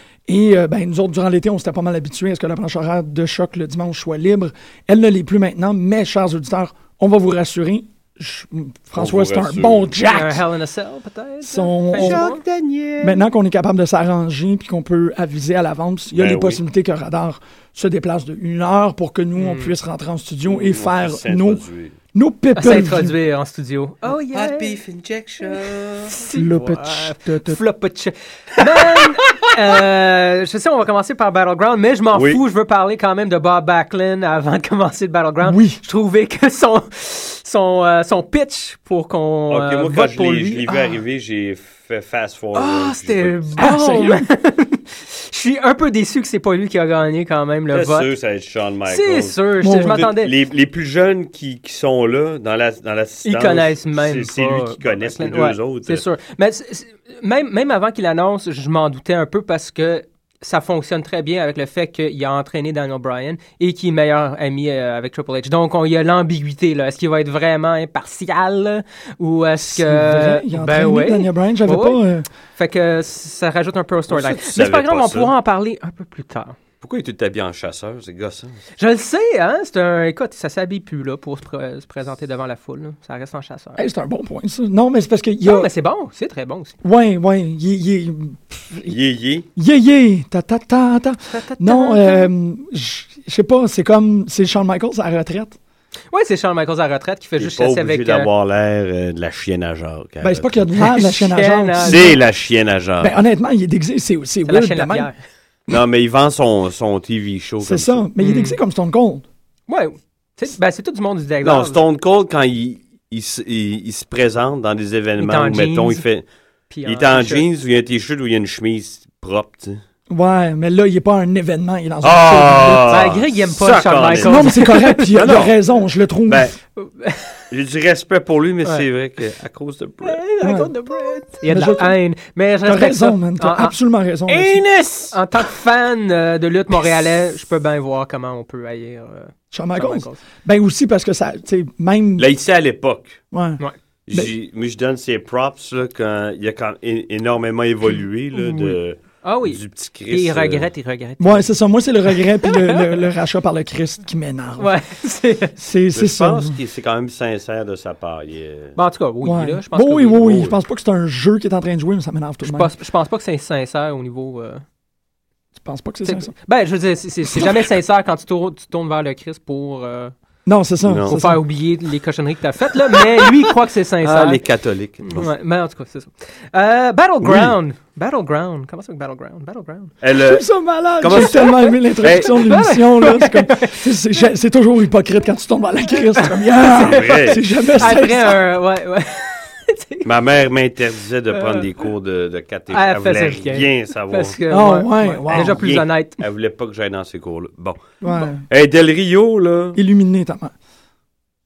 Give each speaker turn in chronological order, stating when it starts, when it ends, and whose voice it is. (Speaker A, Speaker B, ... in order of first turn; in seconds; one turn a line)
Speaker A: 0.3-10.4
Speaker B: 9.0-9.9
Speaker C: 10.0-12.4
Speaker A: 11.4-12.3
Speaker B: 12.0-13.2
Speaker A: 13.0-21.6
Speaker B: 16.1-16.6
Speaker C: 19.4-19.7
Speaker B: 20.5-22.0
Speaker A: 22.1-23.1
Speaker C: 22.6-24.8
Speaker B: 24.3-26.2
Speaker C: 26.1-40.9
Speaker A: 26.3-27.6
Speaker B: 29.0-29.3
Speaker B: 32.1-32.4
Speaker A: 35.4-35.8
Speaker B: 39.5-43.5
Speaker C: 42.5-48.1
Speaker A: 43.6-44.2
Speaker B: 47.7-56.0
Speaker C: 48.9-50.3
Speaker A: 49.6-50.1
Speaker C: 53.2-72.0
Speaker A: 69.6-72.3
Speaker C: 72.6-76.6
Speaker B: 74.1-75.3
Speaker B: 76.8-78.7
Speaker C: 78.8-83.8
Speaker A: 83.8-85.7
Speaker C: 85.4-86.8
Speaker A: 86.8-89.0
Speaker B: 88.9-89.5
Speaker A: 89.6-95.6
Speaker C: 91.3-92.3
Speaker C: 96.1-98.3
Speaker B: 97.4-100.7
Speaker A: 100.2-102.2
Speaker C: 100.8-102.1
Speaker B: 101.8-103.2
Speaker A: 103.0-105.1
Speaker C: 104.5-105.2
Speaker B: 105.7-108.0
Speaker A: 107.6-109.3
Speaker C: 108.2-108.6
Speaker C: 109.7-111.8
Speaker B: 111.4-116.2
Speaker C: 115.2-116.0
Speaker C: 116.7-117.5
Speaker B: 116.8-119.8
Speaker A: 120.1-123.2
Speaker B: 122.0-124.4
Speaker C: 122.9-125.5
Speaker A: 124.2-126.5
Speaker B: 125.2-125.5
Speaker B: 126.3-126.6
Speaker C: 126.8-127.5
Speaker B: 127.5-130.2
Speaker C: 130.0-133.8
Speaker A: 130.4-130.7
Speaker A: 131.4-132.0
Speaker A: 132.7-134.7
Speaker C: 134.3-140.2
Speaker B: 134.8-135.1
Speaker A: 139.5-142.3
Speaker B: 142.2-143.2
Speaker A: 143.3-144.3
Speaker B: 144.1-150.7
Speaker A: 148.4-148.8
Speaker C: 149.2-151.5
Speaker A: 151.2-154.7
Speaker C: 152.4-152.9
Speaker C: 154.6-155.6
Speaker A: 155.6-156.6
Speaker B: 155.9-158.8
Speaker C: 158.8-160.5
Speaker A: 159.2-162.7
Speaker B: 160.2-160.5
Speaker C: 162.4-164.7
Speaker A: 165.6-166.3
Speaker C: 166.0-170.1
Speaker A: 167.3-167.7
Speaker A: 170.5-171.4
Speaker B: 170.9-171.2
Speaker C: 171.1-174.4
Speaker B: 174.0-175.3
Speaker C: 175.0-179.9
Speaker B: 177.2-177.6
Speaker B: 180.0-180.5
Speaker A: 180.1-188.4
Speaker B: 181.0-182.6
Speaker C: 181.4-183.9
Speaker C: 186.2-190.1
Speaker B: 186.7-187.9
Speaker B: 190.1-194.4
Speaker C: 191.3-191.7
Speaker C: 192.7-196.2
Speaker A: 194.5-195.7
Speaker B: 195.3-199.8
Speaker A: 198.0-198.4
Speaker A: 199.7-200.5